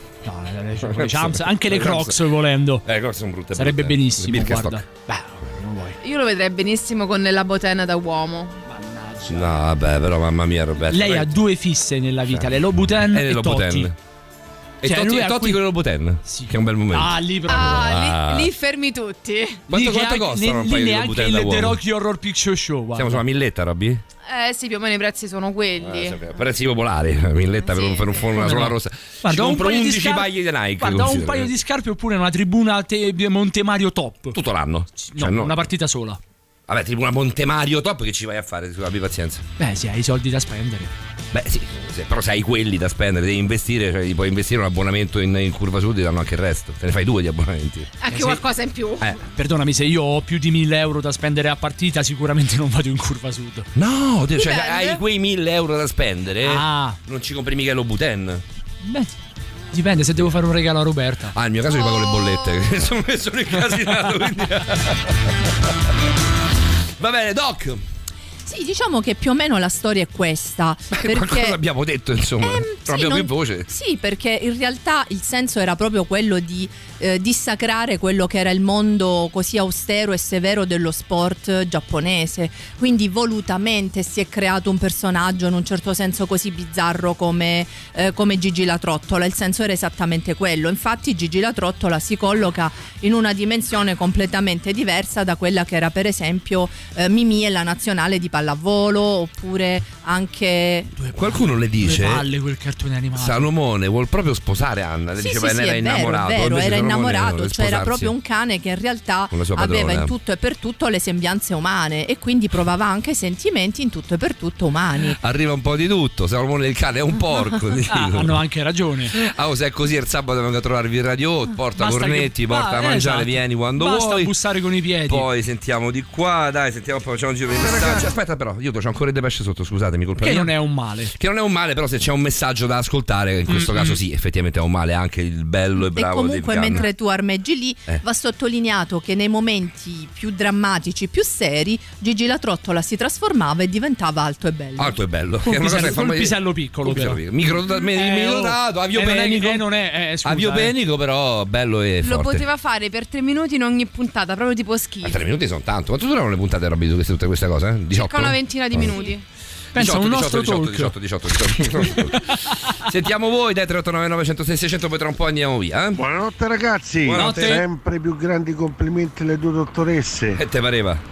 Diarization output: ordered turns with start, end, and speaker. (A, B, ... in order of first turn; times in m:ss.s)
0:00.2-0:02.8 A
0:00.8-0:02.2 B
0:02.8-0:04.8 B
0:03.6-0:06.0 A
0:06.0-0:08.6 C
0:08.7-0:09.5 A
0:09.3-0:11.4 B
0:10.9-0:13.9 A
0:13.0-0:13.9 B
0:14.8-0:18.5 B
0:14.8-0:15.6 A
0:16.2-0:17.9 A
0:17.5-0:19.6 C
0:19.7-0:21.8 B
0:19.7-0:23.2 A
0:23.0-0:24.0 B
0:24.3-0:26.2 C
0:25.8-0:31.5 B
0:27.6-0:28.3 C
0:28.3-0:34.4 A
0:34.3-0:35.6 B
0:35.0-0:36.2 A
0:36.7-0:39.4 B
0:39.6-0:40.9 A
0:41.3-0:48.0 B
0:48.0-0:49.2 C
0:48.1-0:48.4 A
0:49.3-0:53.7 A
0:53.7-0:58.4 B
0:54.3-0:55.0 C
0:56.4-0:57.0 A
0:58.8-0:59.1 A
0:59.7-1:01.3 A
1:01.3-1:05.0 B
1:01.8-1:02.5 C
1:03.8-1:04.0 A
1:07.0-1:07.8 B
1:08.4-1:11.6 D
1:10.9-1:13.7 B
1:12.4-1:40.9 D
1:41.0-1:43.5 A
1:41.1-1:42.2 B
1:43.2-1:48.1 B
1:45.2-1:55.2 D
1:49.3-1:50.1 B
1:55.2-1:58.4 B
1:57.9-1:59.1 A
1:59.1-2:04.3 B
2:01.8-2:05.3 A
2:05.1-2:10.5 B
2:07.5-2:08.1 E
2:10.2-2:11.1 A
2:11.1-2:16.8 B
2:13.5-2:14.0 A
2:15.8-2:25.0 D
2:24.8-2:29.6 B
2:25.4-2:30.7 A
2:30.2-2:32.4 B
2:32.0-2:35.2 C
2:35.0-2:38.9 B
2:37.9-2:39.2 C
2:39.7-2:42.6 A
2:39.7-2:46.0 B
2:46.0-2:50.4 E
2:47.0-2:47.6 B
2:47.1-2:47.6 A
2:50.4-2:51.0 B